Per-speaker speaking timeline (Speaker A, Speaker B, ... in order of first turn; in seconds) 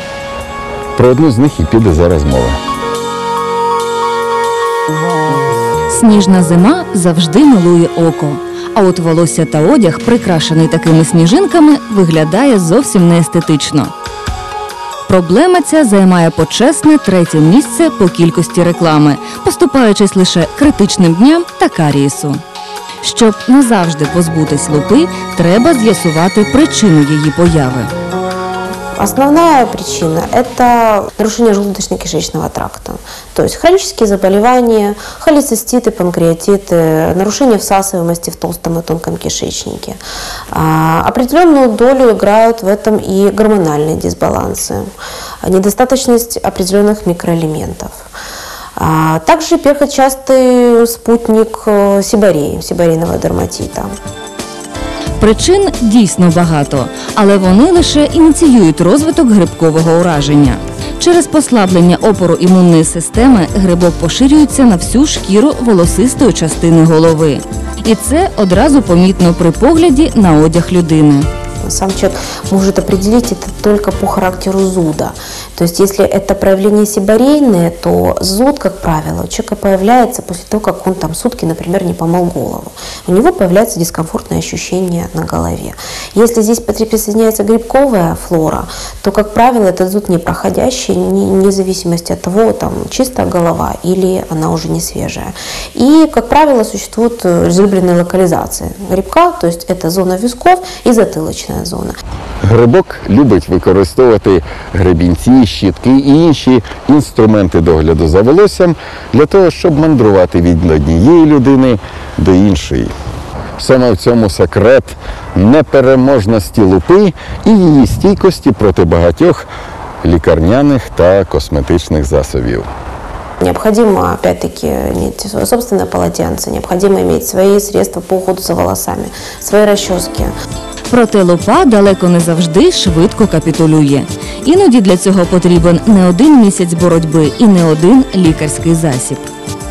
Speaker A: 0.9-2.6, 102.4-112.9, 113.6-119.5, 120.0-122.7
Speaker B: 5.9-13.9, 15.1-22.4, 23.0-27.9, 55.2-71.3, 130.9-139.3
Speaker C: 29.0-40.0, 40.5-44.9, 45.4-48.1, 48.8-53.9, 71.6-102.0, 123.4-130.3